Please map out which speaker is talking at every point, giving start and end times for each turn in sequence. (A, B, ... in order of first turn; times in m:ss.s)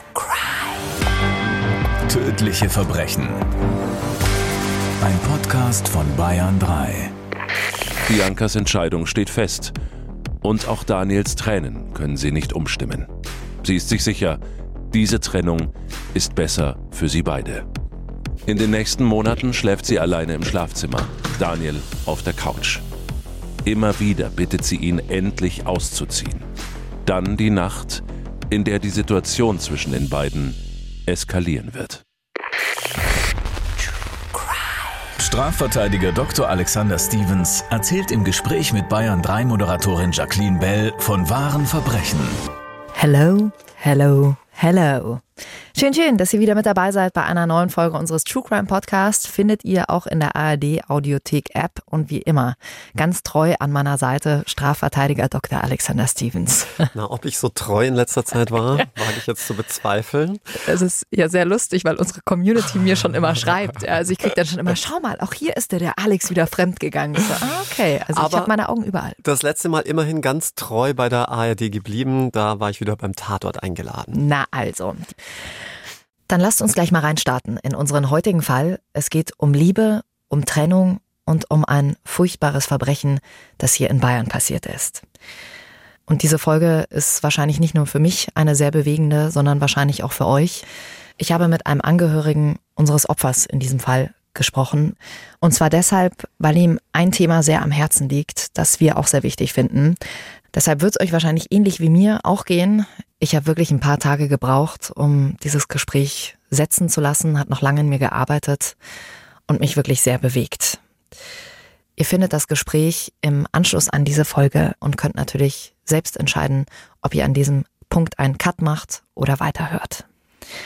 0:02.1-0:03.4 A
0:05.0-0:07.1 A
0:08.1-0:09.7 B
0:10.4-0:13.1 B
0:13.6-0:14.4 B
0:14.9-0:17.6 B
0:18.5-0:22.8 B
0:23.6-0:26.5 B
0:27.0-0:32.0 B
0:35.2-0:42.4 A
0:42.9-0:45.2 C
0:45.8-0:56.9 C
0:56.9-1:00.4 D
1:00.6-1:09.2 C
1:08.1-1:08.5 D
1:09.2-1:14.2 D
1:14.1-1:15.1 C
1:16.3-1:25.0 C
1:26.1-1:30.7 C
1:31.2-1:40.0 C
1:40.5-1:48.8 C
1:49.5-1:50.8 C
1:52.0-2:00.1 C